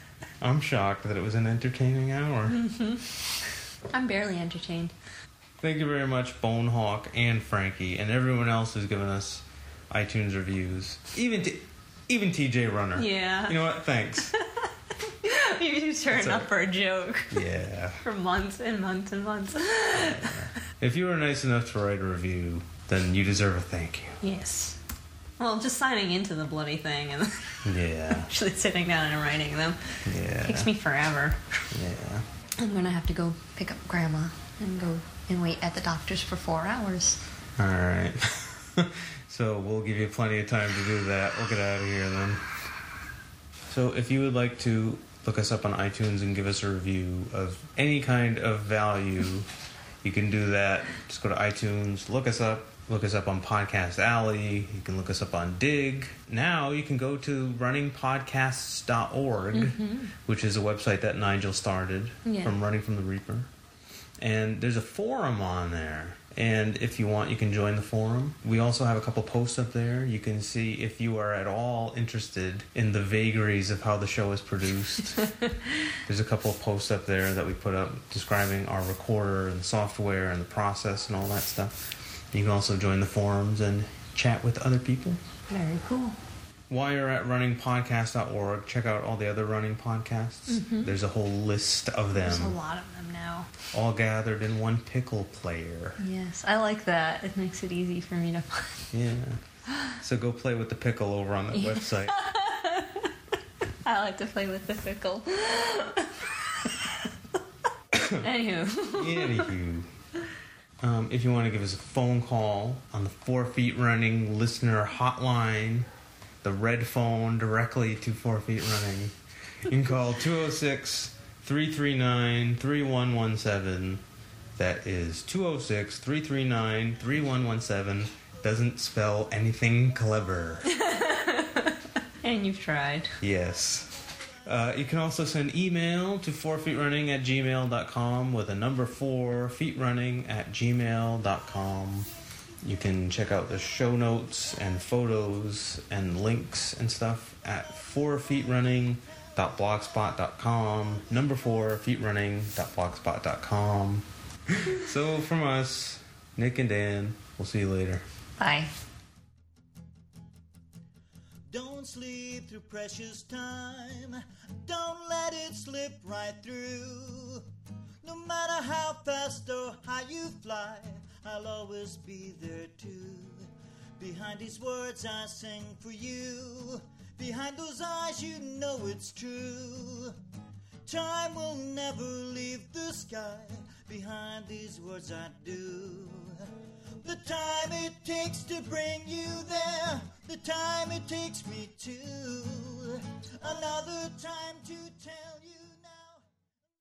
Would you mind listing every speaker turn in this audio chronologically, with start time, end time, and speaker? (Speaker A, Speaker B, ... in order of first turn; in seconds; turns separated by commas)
Speaker A: 0.4-2.6, Speaker B: 2.5-3.1, Speaker B: 3.9-4.9, Speaker A: 5.6-14.3, Speaker B: 12.9-13.7, Speaker B: 14.3-14.7, Speaker B: 15.2-17.4, Speaker A: 16.1-16.5, Speaker A: 17.3-18.0, Speaker B: 18.0-20.4, Speaker A: 19.9-24.2, Speaker B: 24.2-24.8, Speaker B: 25.4-31.4, Speaker A: 27.6-28.3, Speaker A: 30.1-30.7, Speaker A: 31.7-32.2, Speaker B: 32.6-37.2, Speaker A: 37.6-42.5, Speaker A: 43.7-49.5, Speaker A: 50.0-63.5, Speaker B: 59.5-60.1, Speaker B: 62.2-62.6, Speaker A: 64.2-75.3, Speaker A: 76.0-85.2, Speaker B: 85.5-86.2, Speaker A: 86.7-92.6, Speaker B: 90.5-90.9, Speaker B: 92.1-93.6, Speaker A: 93.7-96.0, Speaker B: 96.0-98.9, Speaker A: 98.9-99.4, Speaker A: 100.0-102.2, Speaker B: 101.5-103.1, Speaker B: 103.8-106.7, Speaker A: 107.9-108.3, Speaker B: 108.2-109.5, Speaker A: 108.9-109.9, Speaker A: 110.8-115.9, Speaker A: 116.4-124.0, Speaker A: 124.5-130.7, Speaker B: 130.6-133.1, Speaker A: 133.2-142.1, Speaker A: 142.6-158.0, Speaker B: 158.4-158.7, Speaker C: 161.5-167.4, Speaker C: 168.0-173.5, Speaker C: 174.0-180.1, Speaker C: 180.8-186.5, Speaker C: 187.0-196.2